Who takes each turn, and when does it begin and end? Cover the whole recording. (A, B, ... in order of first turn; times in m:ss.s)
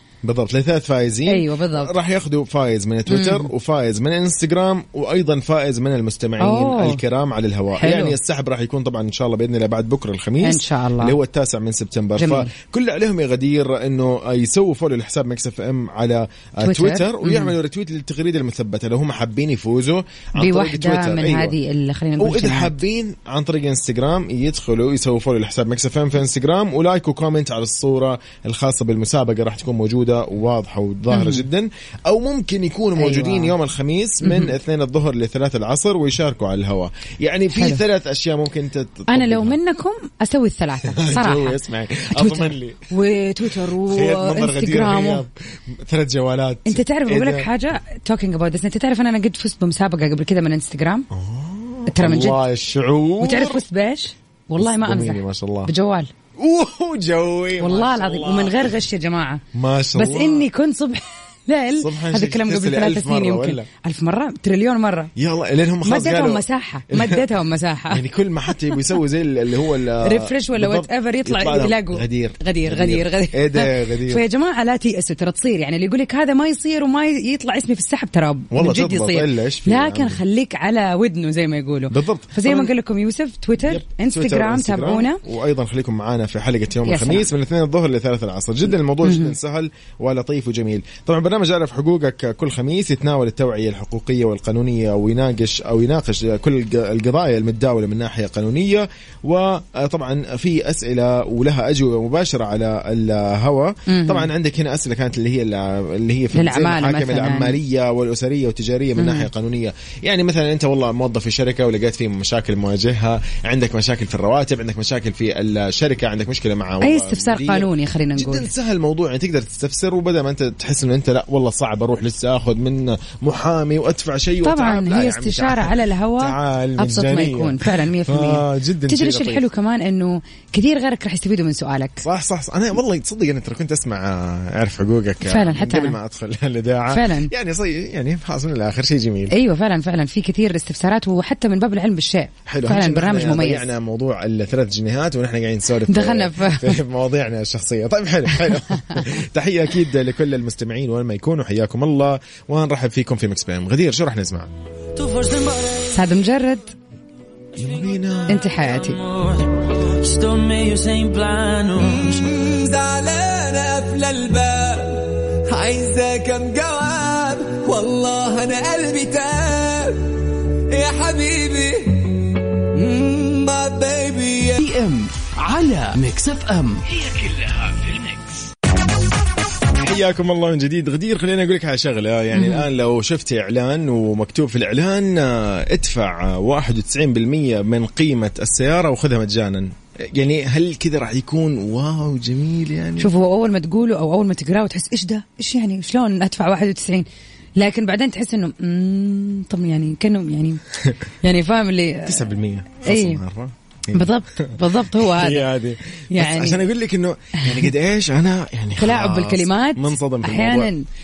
0:00.2-0:21.6 A
0:01.2-0:01.9 B
0:03.1-0:03.5 B
0:06.4-0:07.0 B
0:07.8-0:08.2 B
0:10.4-0:11.2 B
0:12.2-0:12.5 B
0:16.6-0:17.5 B
0:20.4-0:22.7 B
0:22.2-0:39.6 A
0:31.1-0:31.4 B
0:33.0-0:33.5 B
0:34.2-0:34.5 B
0:37.6-0:37.8 B
0:39.1-0:41.6 B
0:40.8-0:42.9 A
0:42.1-0:45.2 B
0:43.4-0:47.5 A
0:46.7-0:51.1 B
0:51.1-0:53.6 A
0:51.9-0:52.4 B
0:53.2-0:56.1 B
0:54.6-0:55.7 A
0:56.4-0:58.8 A
0:57.6-0:59.4 B
0:59.5-1:00.5 A
0:59.9-1:05.1 B
1:01.8-1:03.7 A
1:05.2-1:07.2 A
1:05.8-1:08.0 B
1:07.9-1:14.2 A
1:10.0-1:25.2 B
1:18.5-1:20.2 A
1:21.9-1:22.7 A
1:23.6-2:09.4 A
1:26.8-1:27.3 B
1:29.0-1:29.3 B
1:43.9-1:44.3 B
1:46.3-1:47.6 B
1:49.0-1:49.3 B
1:56.8-1:58.5 B
2:04.4-2:12.0 B
2:12.0-2:19.3 A
2:15.2-2:16.0 B
2:16.9-2:17.3 B
2:19.3-2:23.6 B
2:22.4-2:34.5 A
2:25.9-2:26.8 B
2:28.7-2:29.0 B
2:35.0-2:35.9 C
2:35.9-2:36.7 B
2:37.6-2:38.5 A
2:38.3-2:39.0 B
2:39.0-2:54.6 C
2:54.5-2:56.8 D
2:56.9-2:58.2 C
2:59.7-3:13.1 A
3:02.3-3:02.6 B
3:13.0-3:17.0 B
3:17.6-3:20.6 B
3:21.2-3:22.2 B
3:22.0-3:30.7 A
3:22.8-3:23.2 B
3:23.9-3:25.4 B
3:26.1-3:26.6 B
3:28.8-3:30.8 B